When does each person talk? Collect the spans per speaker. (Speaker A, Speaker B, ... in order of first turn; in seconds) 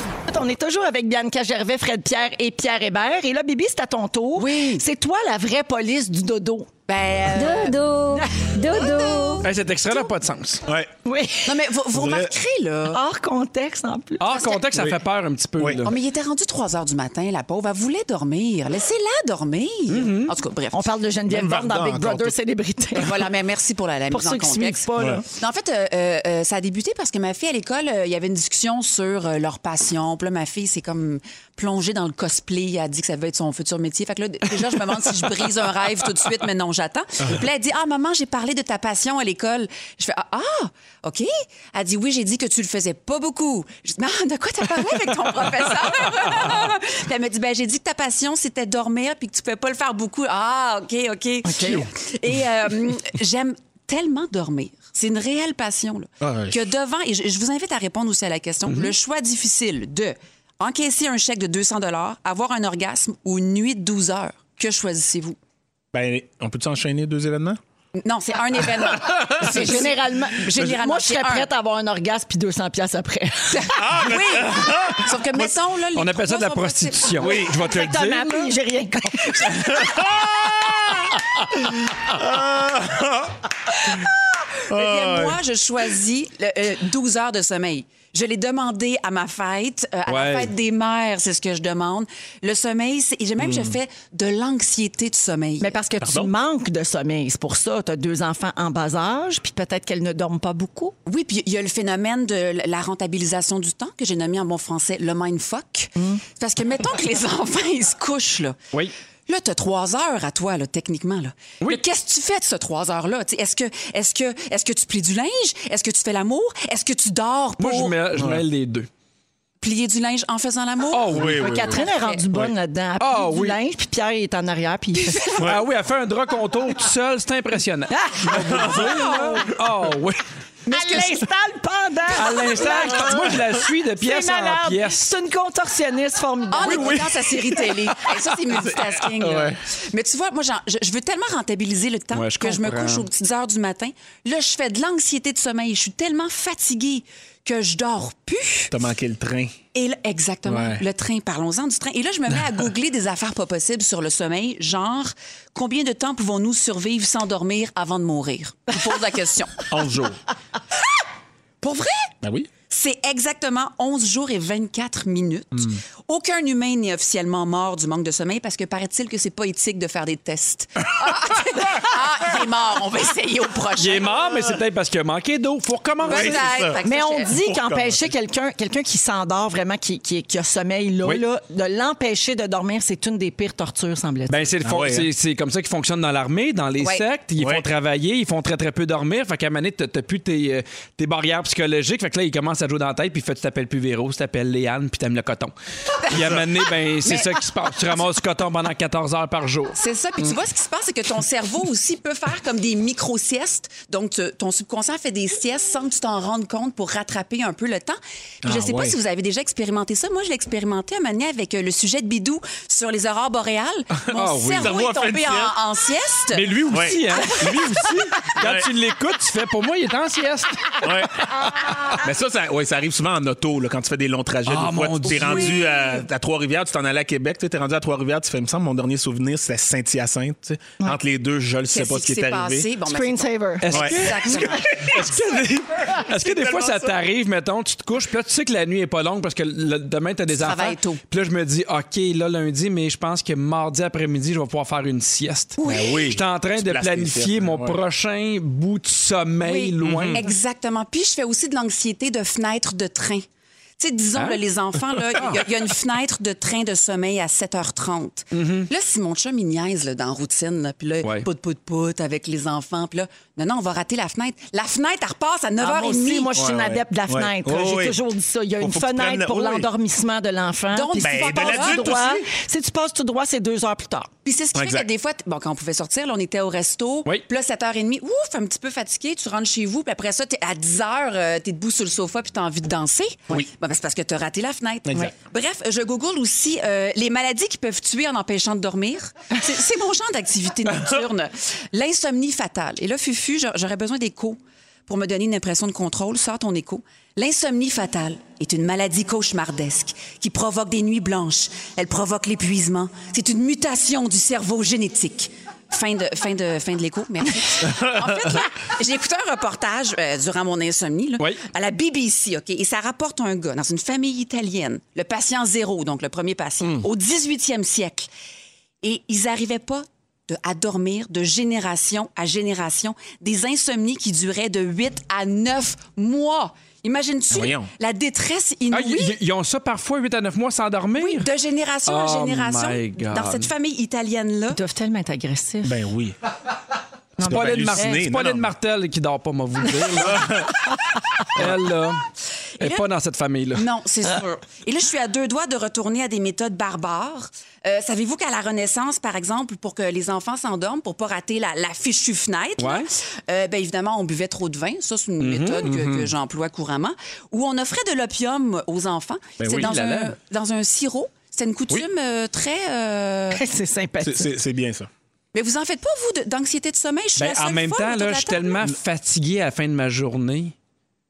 Speaker A: 0.3-6.7, 8.1-8.5, 11.1-11.6, 12.9-14.3, 20.7-23.2, 24.1-25.2, 51.5-51.9, 69.4-73.8, 77.3-79.9, 95.6-101.0, 106.0-106.2, 121.4-125.4, 128.0-129.3, 130.7-133.4, 134.0-137.1, 176.8-184.4, 232.9-233.8, 265.6-274.1, 334.5-335.8, 337.2-338.0, 363.3-364.3
Speaker B: 4.4-4.8, 6.9-7.8, 8.7-9.5, 11.5-13.0, 14.3-14.6, 15.8-20.9, 22.9-65.4, 68.0-71.5, 73.5-77.4, 84.0-95.7, 101.1-108.6, 109.3-118.0, 119.6-122.2, 125.0-125.5, 128.8-129.4, 130.7-131.2, 136.5-148.7, 149.7-159.7, 161.6-162.1, 162.7-174.2, 176.0-177.3, 186.8-187.1, 196.1-196.5, 197.0-197.4, 199.8-216.6, 217.1-217.6, 225.1-225.9, 231.7-234.8, 240.3-241.0, 245.6-246.0, 249.4-253.2, 253.8-266.3, 270.7-272.0, 274.2-318.1, 318.8-329.1, 331.0-334.6, 342.6-342.9, 343.6-363.4, 365.3-368.7
Speaker C: 7.3-9.5
Speaker D: 9.4-10.6, 14.2-16.0, 19.9-20.4, 58.7-58.9, 75.9-78.5, 90.1-90.5, 117.6-118.9, 120.9-121.8, 123.0-123.6, 125.4-130.2, 132.1-135.0, 136.6-137.1, 142.1-143.1, 173.8-176.7, 184.3-195.5, 196.1-199.8, 214.1-214.8, 216.3-221.9, 224.5-225.6, 233.6-250.3, 255.1-255.4, 258.3-258.7, 328.7-331.3, 331.9-333.5, 337.2-340.4, 341.3-342.1, 342.6-343.7, 352.6-352.9, 355.2-355.7, 359.4-360.1, 367.2-370.5
Speaker E: 11.9-12.3, 15.6-15.8, 21.3-22.4, 25.0-25.2, 56.2-56.6, 65.9-67.6, 68.8-69.8, 73.7-75.5, 77.2-77.6, 79.3-84.0, 84.7-85.4, 93.4-93.8, 96.0-96.3, 118.1-118.4, 121.1-121.8, 128.3-129.0, 132.9-133.5, 138.5-139.6, 148.7-149.6, 150.5-150.8, 159.7-160.2, 162.2-162.5, 165.6-165.8, 176.1-178.1, 184.6-185.1, 187.4-187.7, 196.1-196.4, 208.4-209.0, 214.6-215.6, 216.7-217.7, 218.4-218.7, 220.8-221.3, 221.9-232.7, 233.7-237.0, 245.6-247.8, 249.8-250.3, 266.3-268.0, 268.6-269.7, 271.0-272.3, 274.6-274.9, 284.9-285.1, 307.6-308.4, 327.3-327.7, 335.6-336.2, 337.2-338.5, 339.9-340.7, 355.6-356.1, 359.4-359.7, 364.0-364.9